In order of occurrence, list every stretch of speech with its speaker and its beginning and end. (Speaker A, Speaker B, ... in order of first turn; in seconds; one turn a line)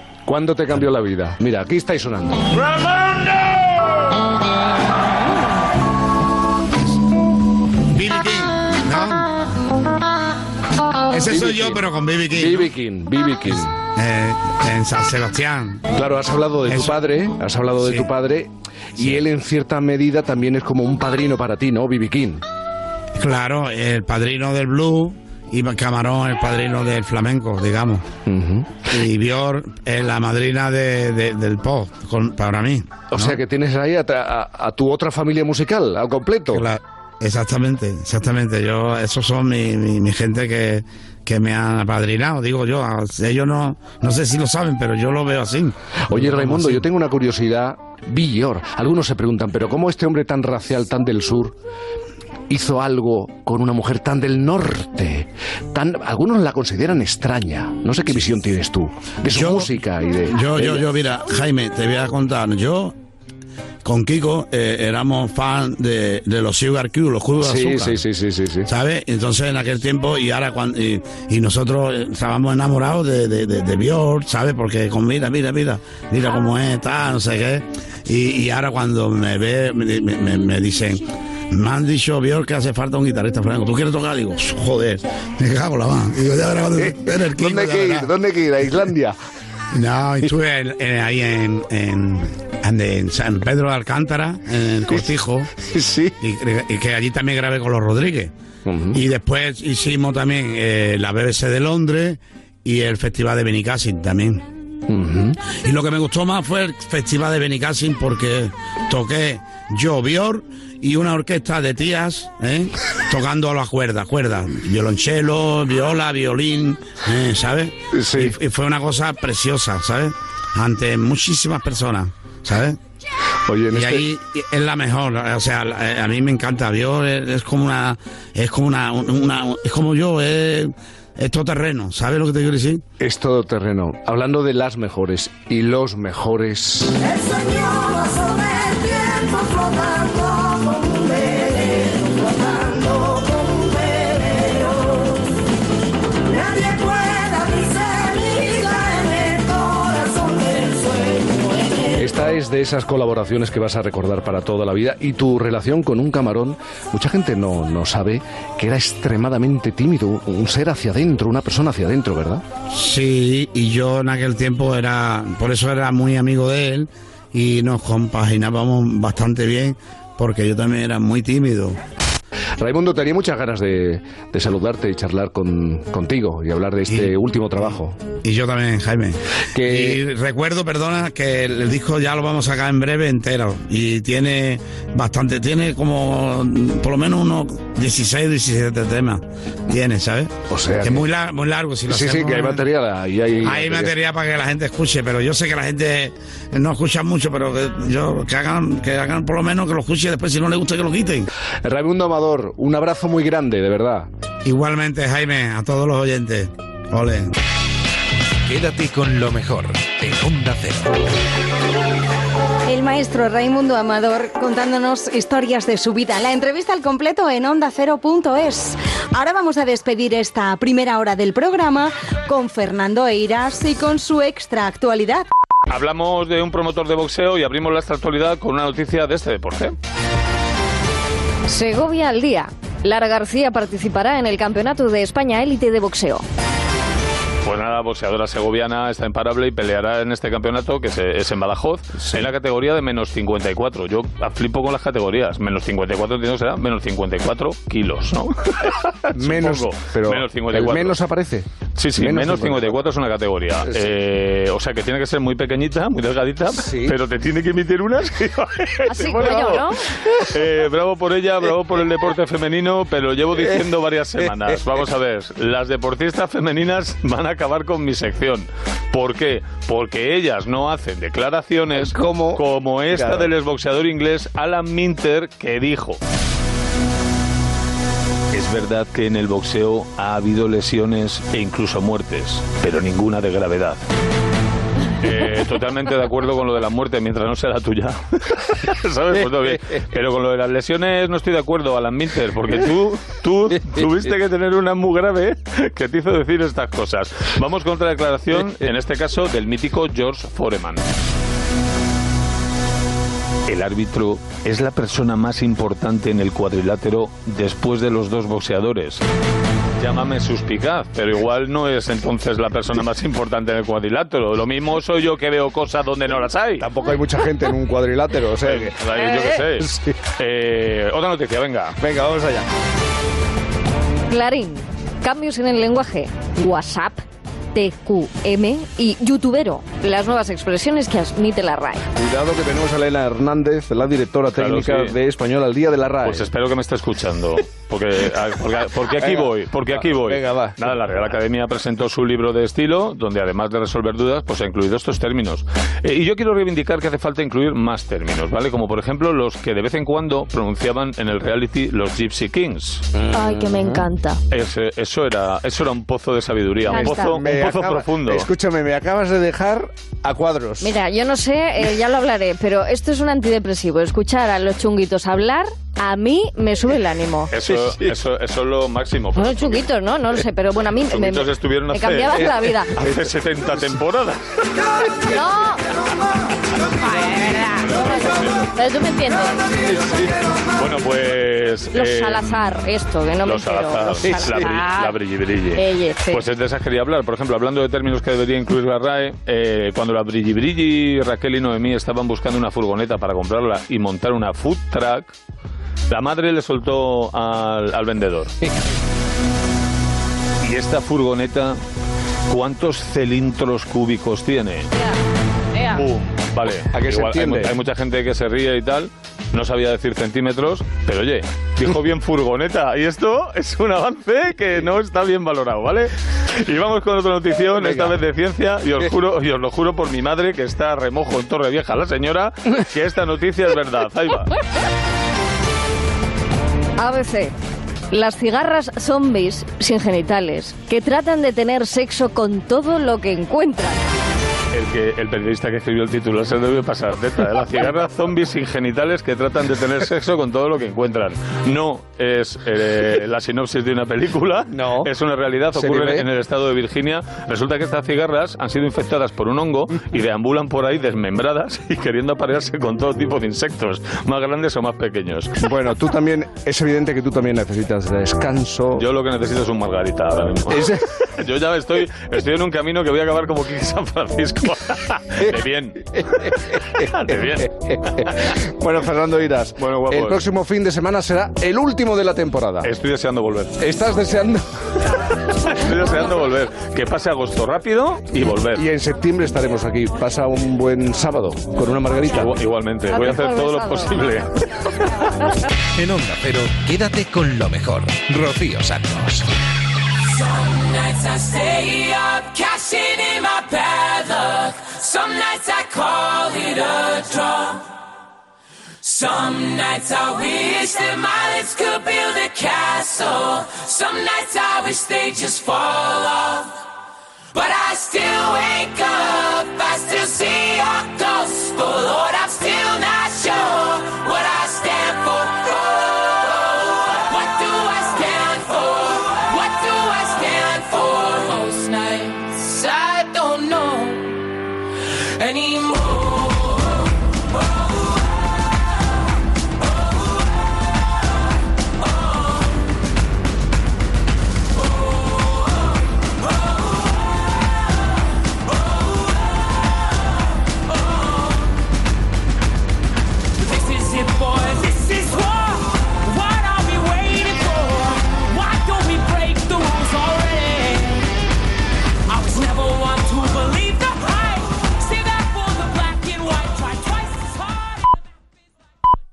Speaker A: 0.3-2.5
Speaker B: 7.9-9.3
Speaker B: 11.1-12.7
Speaker A: 11.3-11.8
Speaker A: 12.4-13.7
Speaker B: 13.9-15.9
Speaker A: 15.9-22.4
Speaker B: 16.7-17.1
Speaker B: 17.8-18.1
Speaker B: 23.2-28.1
Speaker A: 28.3-28.8
Speaker B: 28.9-33.4
Speaker A: 33.1-36.7
Speaker B: 36.5-46.9
Speaker A: 46.1-51.6
Speaker A: 52.5-60.9
Speaker B: 59.3-59.7
Speaker B: 60.3-62.9
Speaker B: 63.8-68.0
Speaker A: 67.4-68.7
Speaker B: 68.7-88.1
Speaker A: 86.8-89.2
Speaker B: 89.7-95.5
Speaker A: 95.6-96.1
Speaker B: 96.2-98.3
Speaker A: 98.7-99.0
Speaker B: 98.9-104.4
Speaker A: 104.9-105.4
Speaker B: 105.5-122.8
Speaker A: 117.9-118.4
Speaker A: 123.5-124.0
Speaker B: 123.7-132.8
Speaker A: 133.0-137.0
Speaker A: 152.0-162.4
Speaker B: 162.7-171.8
Speaker A: 172.6-178.0
Speaker B: 178.2-192.7
Speaker A: 179.6-180.0
Speaker A: 190.5-191.1
Speaker A: 191.9-193.9
Speaker B: 193.4-201.2
Speaker A: 201.6-204.1
Speaker B: 204.4-207.3
Speaker C: 208.4-211.0
Speaker D: 212.7-225.3
Speaker E: 225.7-229.8
Speaker F: 231.5-236.2
Speaker E: 237.4-251.0
Speaker A: 242.0-242.3
Speaker A: 249.2-252.8
Speaker E: 251.8-259.6
Speaker A: 256.6-257.0
Speaker F: 258.9-259.8
Speaker E: 260.2-276.0
Speaker A: 264.2-264.6
Speaker A: 271.8-273.3
Speaker E: 278.3-283.8
Speaker E: 285.0-300.9
Speaker A: 289.1-289.4
Speaker A: 293.6-293.9
Speaker E: 303.5-309.1
Speaker E: 309.8-316.7
Speaker A: 316.6-319.9
Speaker E: 318.4-321.9
Speaker A: 321.9-322.4
Speaker F: 324.1-327.0
Speaker F: 327.6-331.8
Speaker A: 331.9-336.3
Speaker E: 334.3-334.9
Speaker E: 336.0-352.9
Speaker A: 338.9-340.8
Speaker F: 353.1-354.2
Speaker A: 353.2-353.8
Speaker E: 354.3-358.2
Speaker F: 356.7-357.2
Speaker A: 357.1-360.7
Speaker B: 358.5-358.8
Speaker F: 360.6-367.4
Speaker E: 367.3-369.5
Speaker F: 369.1-372.8
Speaker E: 370.9-374.2
Speaker F: 375.1-375.6
Speaker F: 376.8-379.4
Speaker E: 377.6-378.0
Speaker E: 379.7-382.4
Speaker F: 381.7-385.0
Speaker E: 383.2-395.1
Speaker F: 385.5-386.2
Speaker E: 395.9-398.4
Speaker E: 400.4-401.6
Speaker E: 402.3-404.7
Speaker F: 405.6-405.9
Speaker E: 405.7-424.3
Speaker A: 406.8-407.6
Speaker A: 417.6-417.9
Speaker F: 426.8-427.3
Speaker F: 427.9-433.8
Speaker E: 434.5-455.4
Speaker A: 444.5-444.9
Speaker A: 445.5-446.1
Speaker A: 455.4-458.9
Speaker E: 458.8-465.8
Speaker A: 460.5-460.8
Speaker A: 465.9-472.7
Speaker E: 466.9-467.5
Speaker E: 469.6-470.2
Speaker E: 472.6-473.6
Speaker A: 473.6-474.4
Speaker E: 475.4-478.6
Speaker A: 478.4-482.3
Speaker E: 482.1-484.3
Speaker F: 482.9-483.9
Speaker C: 485.8-489.3
Speaker G: 490.1-497.7
Speaker G: 498.8-506.5
Speaker G: 507.3-524.1
Speaker G: 525.2-526.5
Speaker G: 543.4-551.0
Speaker G: 552.1-557.5